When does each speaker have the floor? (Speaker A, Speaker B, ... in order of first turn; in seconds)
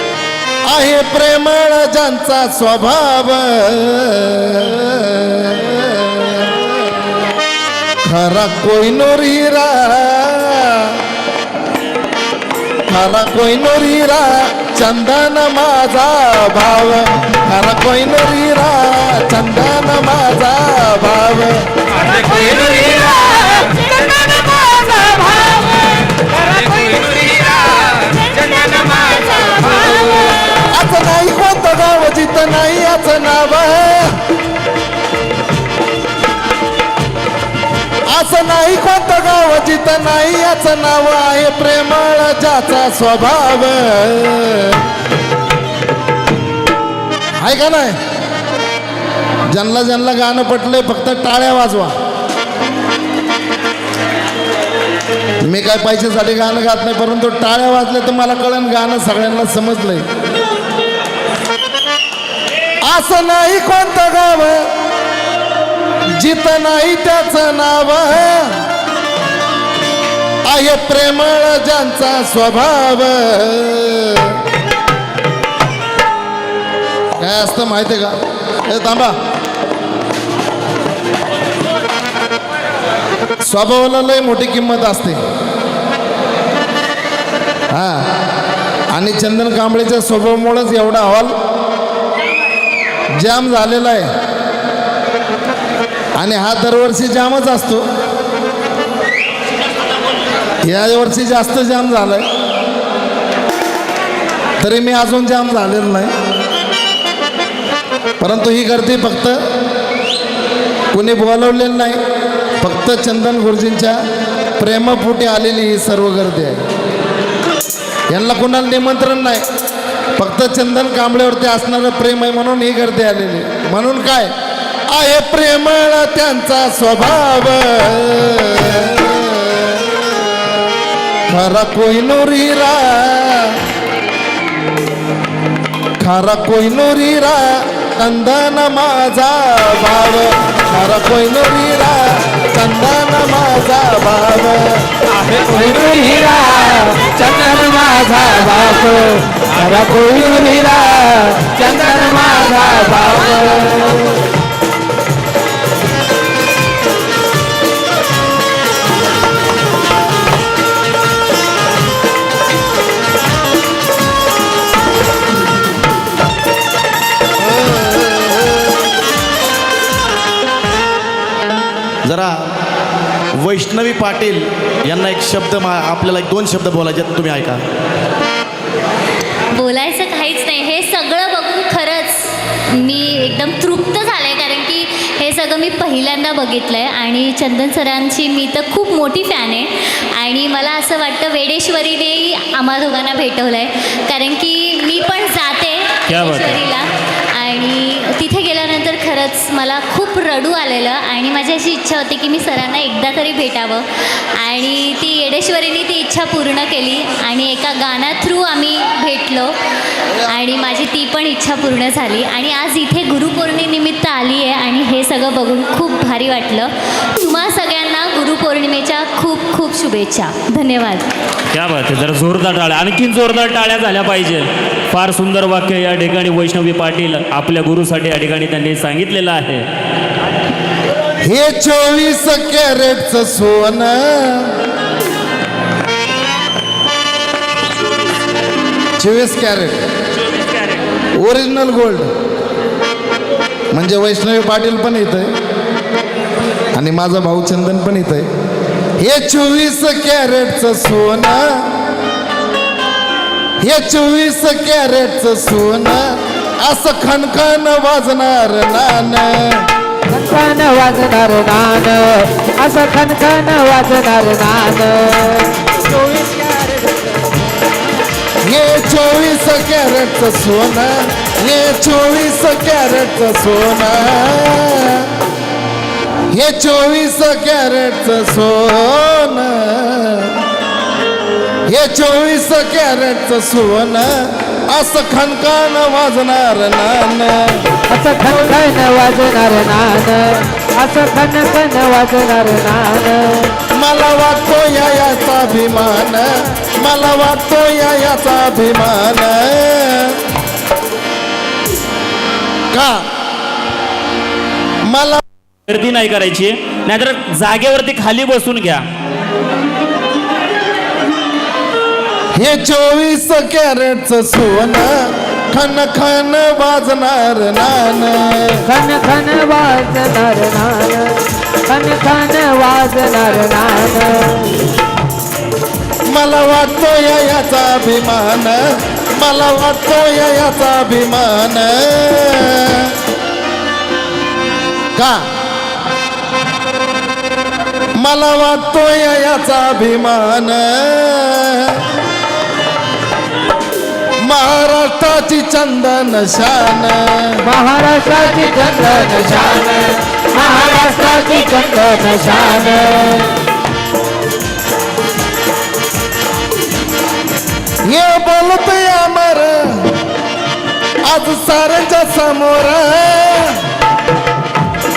Speaker A: 0.7-6.9, 8.0-11.0, 12.9-21.6, 30.5-34.1, 38.1-44.9, 47.4-48.0, 49.5-51.9, 55.4-60.0, 62.8-64.6, 66.2-68.5, 70.5-74.4, 77.2-79.1, 83.4-85.2, 87.7-88.1, 88.9-91.3, 93.2-94.1, 96.2-97.8, 100.6-102.3, 104.6-106.1, 108.2-109.4, 110.9-112.0, 112.6-114.0, 114.6-116.6, 118.1-119.4, 120.2-124.3, 124.9-130.0, 131.3-133.6, 136.0-144.8, 231.2-234.5, 239.0-239.8, 241.2-242.1, 243.7-245.3, 246.7-248.3, 249.0-251.6, 253.6-259.7, 268.4-275.1, 276.3-280.4, 281.7-287.7, 293.7-300.2, 302.7-303.0, 304.9-305.2, 312.4-318.6, 326.1-332.9, 334.9-335.2, 338.0-341.8, 344.2-347.4, 357.9-359.9, 361.0-363.6
Speaker B: 22.0-30.5, 145.2-154.2, 260.1-267.0, 287.9-293.6, 318.6-324.6, 347.4-353.3
Speaker C: 172.0-172.5, 173.3-177.6
Speaker D: 179.5-209.6, 210.2-221.1
Speaker E: 196.1-196.6, 221.5-229.7, 240.2-240.8, 305.7-308.8